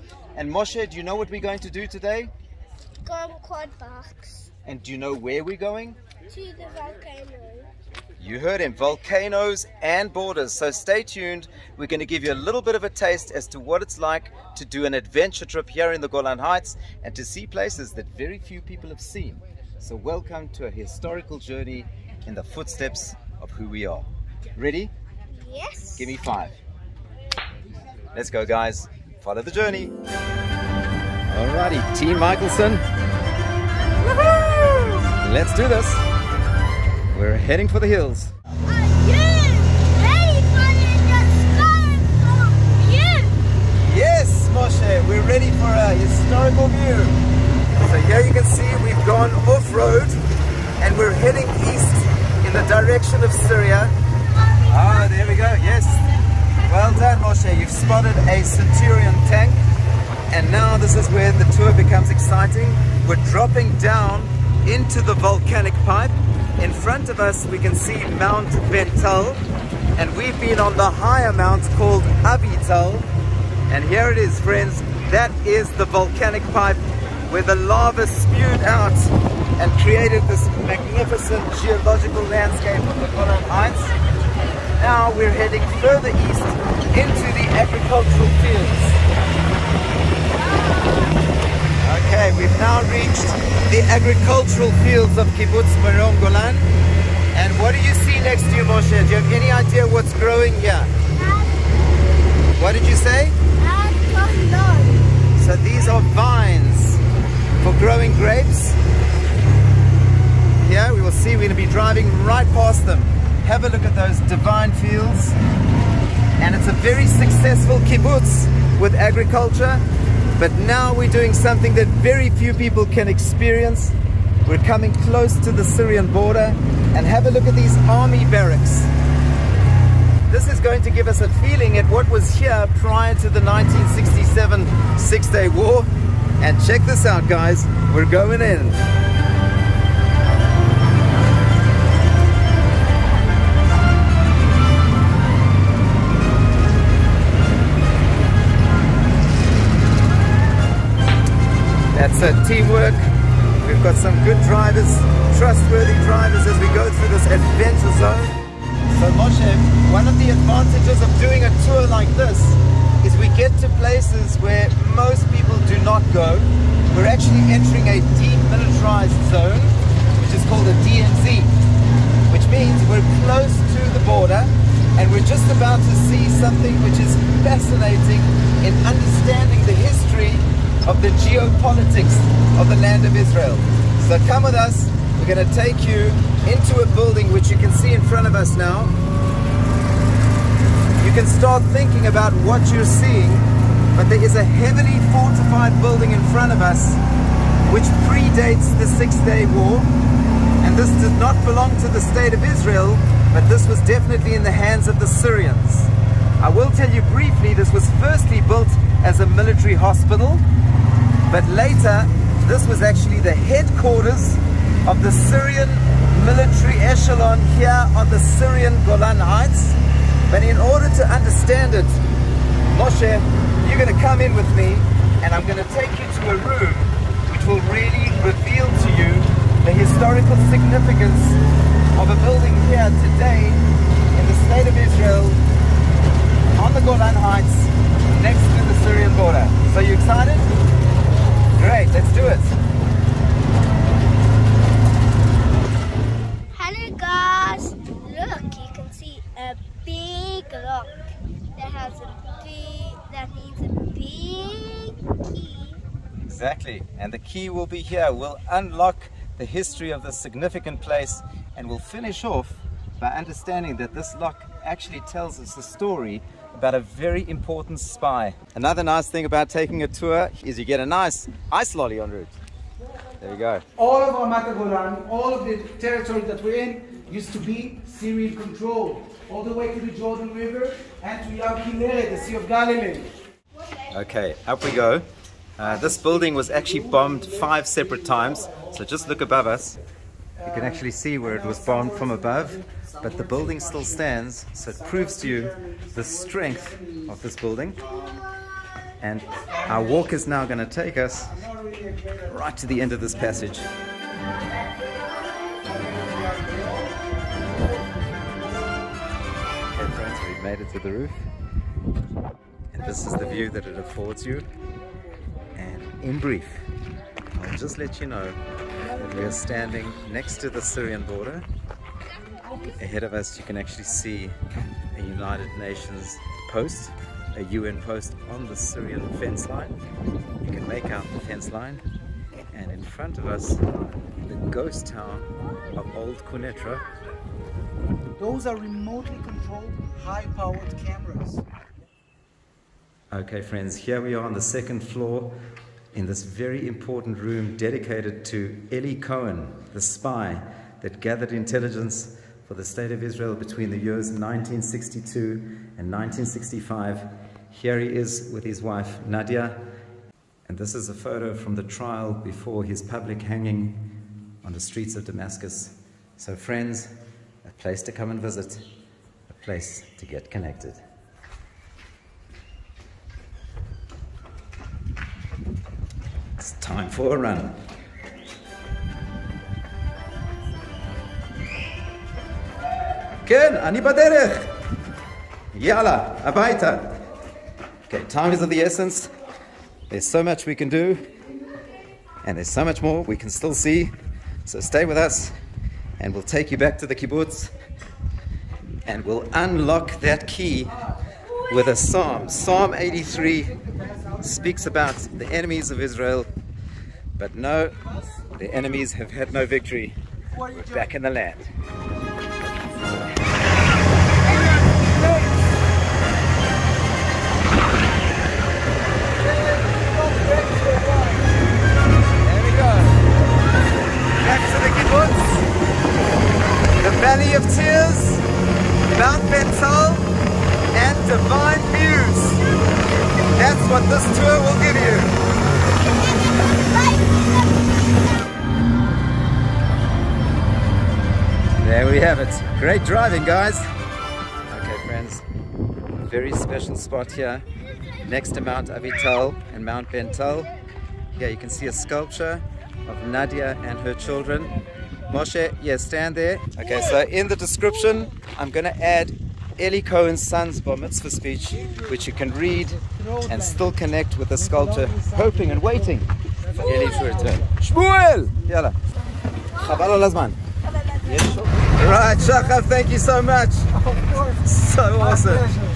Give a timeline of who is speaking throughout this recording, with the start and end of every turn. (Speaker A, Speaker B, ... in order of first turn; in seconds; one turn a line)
Speaker A: 0.4-2.3
Speaker B: 3.0-4.5
Speaker A: 4.7-6.0
Speaker B: 6.3-7.7
Speaker A: 8.2-24.9
Speaker B: 25.3-26.1
Speaker A: 26.0-26.6
Speaker A: 28.1-29.9
Speaker A: 31.3-32.9
Speaker B: 34.0-35.1
Speaker A: 35.1-36.1
Speaker A: 37.1-38.3
Speaker B: 38.7-43.4
Speaker A: 43.7-47.2
Speaker A: 47.8-50.2
Speaker A: 50.8-53.9
Speaker A: 54.6-56.0
Speaker A: 56.6-59.6
Speaker A: 60.3-69.4
Speaker A: 70.0-73.1
Speaker A: 73.7-84.0
Speaker A: 84.8-89.0
Speaker B: 90.3-91.3
Speaker A: 91.8-96.7
Speaker A: 97.3-100.9
Speaker B: 101.1-102.0
Speaker A: 102.6-103.4
Speaker B: 103.6-105.0
Speaker A: 105.3-107.0
Speaker A: 107.6-108.8
Speaker A: 110.6-115.4
Speaker A: 116.4-119.8
Speaker A: 120.4-128.9
Speaker A: 130.3-138.8
Speaker A: 151.9-158.4
Speaker A: 158.9-171.5
Speaker A: 172.3-188.9
Speaker A: 191.0-197.0
Speaker A: 197.7-199.9
Speaker A: 200.6-210.4
Speaker A: 211.3-222.0
Speaker A: 222.7-231.4
Speaker A: 231.9-233.6
Speaker A: 234.1-235.4
Speaker A: 236.6-240.5
Speaker A: 241.6-242.6
Speaker B: 246.5-251.0
Speaker B: 251.6-255.8
Speaker A: 256.3-272.4
Speaker A: 273.2-273.6
Speaker C: 273.8-283.1
Speaker A: 283.9-289.8
Speaker A: 290.4-297.9
Speaker A: 299.0-301.4
Speaker C: 301.7-302.1
Speaker A: 302.2-303.7
Speaker C: 305.6-308.7
Speaker A: 309.7-311.2
Speaker A: 312.7-314.4
Speaker A: 315.6-316.7
Speaker A: 317.4-321.5
Speaker A: 322.7-324.4
Speaker A: 324.9-329.8
Speaker A: 330.4-331.8
Speaker A: 332.5-333.6
Speaker A: 334.2-336.9
Speaker C: 338.2-341.4
Speaker A: 343.1-345.4
Speaker A: 345.9-359.6
Speaker A: 360.5-363.9
Speaker A: 364.4-366.9
Speaker A: 367.4-368.6
Speaker A: 369.3-370.8
Speaker A: 376.4-377.6
Speaker A: 383.2-384.6
Speaker A: 385.5-387.1
Speaker A: 387.9-389.1
Speaker A: 389.9-391.1
Speaker A: 392.2-393.9
Speaker A: 394.4-395.4
Speaker A: 396.0-397.5
Speaker A: 398.9-400.8
Speaker A: 401.5-403.5
Speaker A: 404.2-406.3
Speaker A: 407.2-407.8
Speaker A: 408.4-411.5
Speaker C: 419.2-421.3
Speaker A: 422.2-423.1
Speaker A: 424.2-425.5
Speaker A: 426.8-428.2
Speaker A: 428.9-430.1
Speaker A: 430.7-432.4
Speaker A: 433.4-435.2
Speaker B: 436.3-437.8
Speaker A: 441.6-443.7
Speaker A: 444.5-445.2
Speaker A: 446.0-450.5
Speaker A: 451.1-454.5
Speaker A: 455.1-468.8
Speaker C: 464.9-465.6
Speaker A: 469.5-470.4
Speaker A: 471.0-475.6
Speaker C: 475.2-475.6